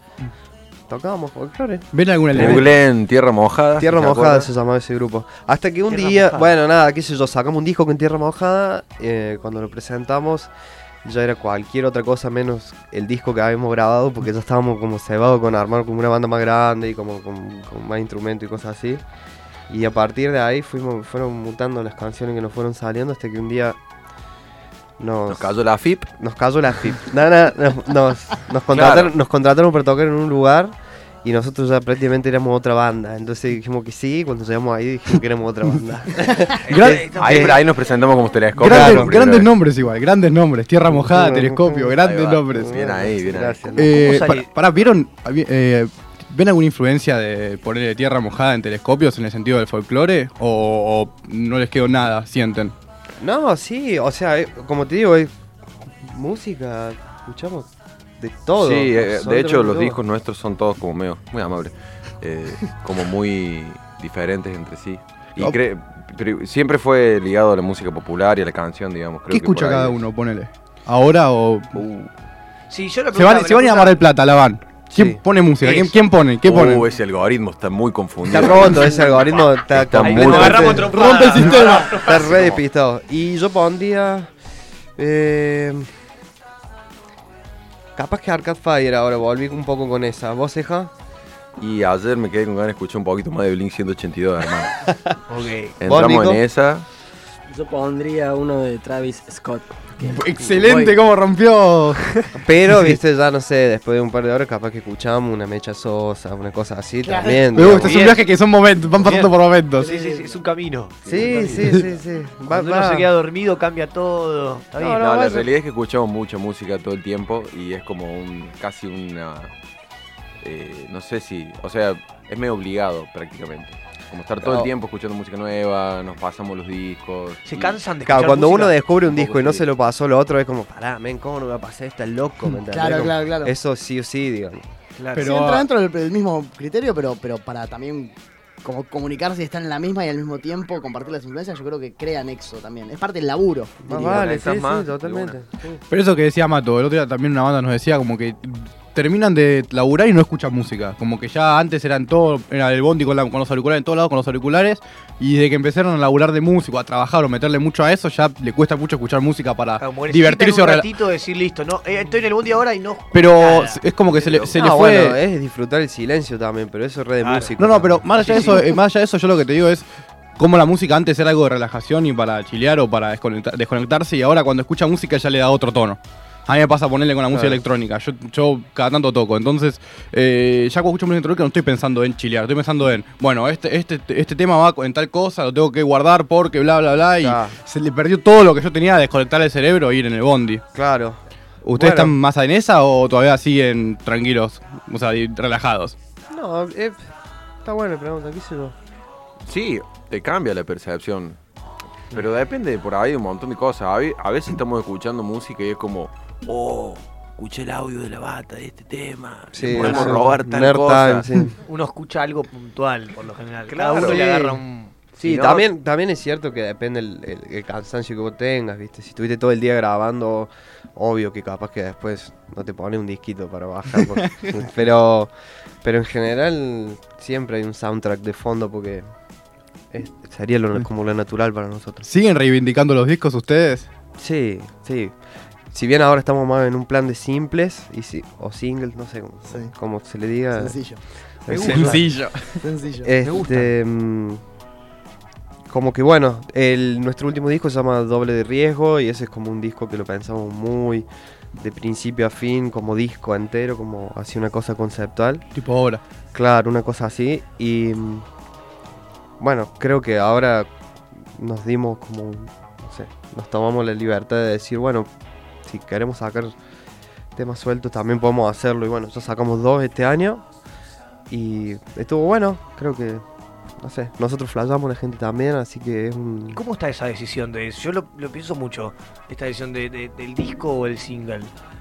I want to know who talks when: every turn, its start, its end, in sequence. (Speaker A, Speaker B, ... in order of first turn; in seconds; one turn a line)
Speaker A: 0.9-2.7
Speaker B: 1.9-2.7
Speaker C: 2.3-4.5
Speaker A: 3.8-10.5
Speaker D: 5.9-6.5
Speaker A: 11.0-19.0
Speaker A: 19.7-23.8
Speaker A: 25.0-25.5
Speaker C: 25.3-26.1
Speaker A: 26.2-37.6
Speaker C: 28.7-29.1
Speaker D: 36.6-37.6
Speaker B: 36.7-37.0
Speaker C: 36.8-39.5
Speaker A: 38.6-39.2
Speaker B: 38.6-42.8
Speaker A: 40.9-44.1
Speaker C: 42.0-43.8
Speaker B: 43.8-52.7
Speaker D: 43.8-44.5
Speaker A: 53.2-55.3
Speaker A: 55.9-57.7
Speaker A: 58.2-60.0
Speaker C: 58.6-70.0
Speaker B: 69.3-71.8
Speaker D: 72.7-74.0
Speaker B: 73.1-76.9
Speaker A: 74.9-75.2
Speaker D: 75.6-76.0
Speaker C: 76.4-80.9
Speaker A: 78.2-81.4
Speaker D: 78.7-82.6
Speaker E: 80.9-81.9
Speaker A: 81.9-84.3
Speaker C: 82.1-82.6
Speaker A: 85.0-85.9
Speaker A: 88.0-90.9
Speaker C: 91.6-94.8
Speaker D: 95.3-95.8
Speaker C: 95.8-96.8
Speaker A: 95.8-96.4
Speaker F: 97.5-101.0
Speaker B: 100.1-102.2
Speaker A: 102.4-108.1
Speaker E: 107.0-107.7
Speaker B: 107.5-109.9
Speaker D: 107.7-108.3
Speaker D: 109.0-111.9
Speaker A: 111.0-113.1
Speaker D: 112.5-115.0
Speaker A: 114.8-115.5
Speaker C: 114.9-119.5
Speaker C: 120.4-127.8
Speaker A: 124.4-124.7
Speaker D: 127.5-129.4
Speaker A: 128.0-134.7
Speaker C: 129.1-129.6
Speaker E: 132.7-133.5
Speaker D: 135.0-135.3
Speaker B: 135.1-135.7
Speaker E: 135.2-143.8
Speaker A: 143.8-145.8
Speaker C: 143.9-145.4
Speaker B: 145.9-160.9
Speaker D: 159.8-164.5
Speaker B: 163.1-165.2
Speaker C: 164.2-164.5
Speaker A: 164.5-168.6
Speaker D: 167.2-167.5
Speaker B: 167.6-169.9
Speaker D: 168.2-168.6
Speaker B: 170.4-190.6
Speaker A: 177.3-177.6
Speaker A: 187.2-187.6
Speaker A: 190.7-191.2
Speaker B: 191.7-195.9
Speaker A: 191.7-192.2
Speaker A: 196.3-197.1
Speaker A: 197.6-198.8
Speaker C: 199.4-201.4
Speaker C: 202.1-211.3
Speaker A: 209.5-211.6
Speaker D: 209.7-210.2
Speaker D: 211.7-215.0
Speaker C: 213.7-214.3
Speaker A: 213.9-214.6
Speaker C: 215.1-215.7
Speaker A: 215.2-225.3
Speaker B: 224.2-224.5
Speaker A: 225.8-229.1
Speaker A: 229.9-232.1
Speaker B: 232.0-233.9
Speaker A: 234.2-235.2
Speaker A: 235.7-242.2
Speaker E: 239.5-239.8
Speaker E: 240.5-241.0
Speaker D: 241.5-242.1
Speaker B: 241.5-242.6
Speaker E: 242.6-243.1
Speaker A: 243.0-244.4
Speaker D: 243.2-243.7
Speaker A: 245.7-255.5
Speaker B: 255.5-256.0
Speaker A: 256.3-258.2
Speaker A: 259.4-260.7
Speaker A: 261.3-265.1
Speaker A: 265.6-266.5
Speaker A: 267.4-270.4
Speaker A: 271.3-273.2
Speaker A: 273.8-276.6
Speaker D: 276.5-281.5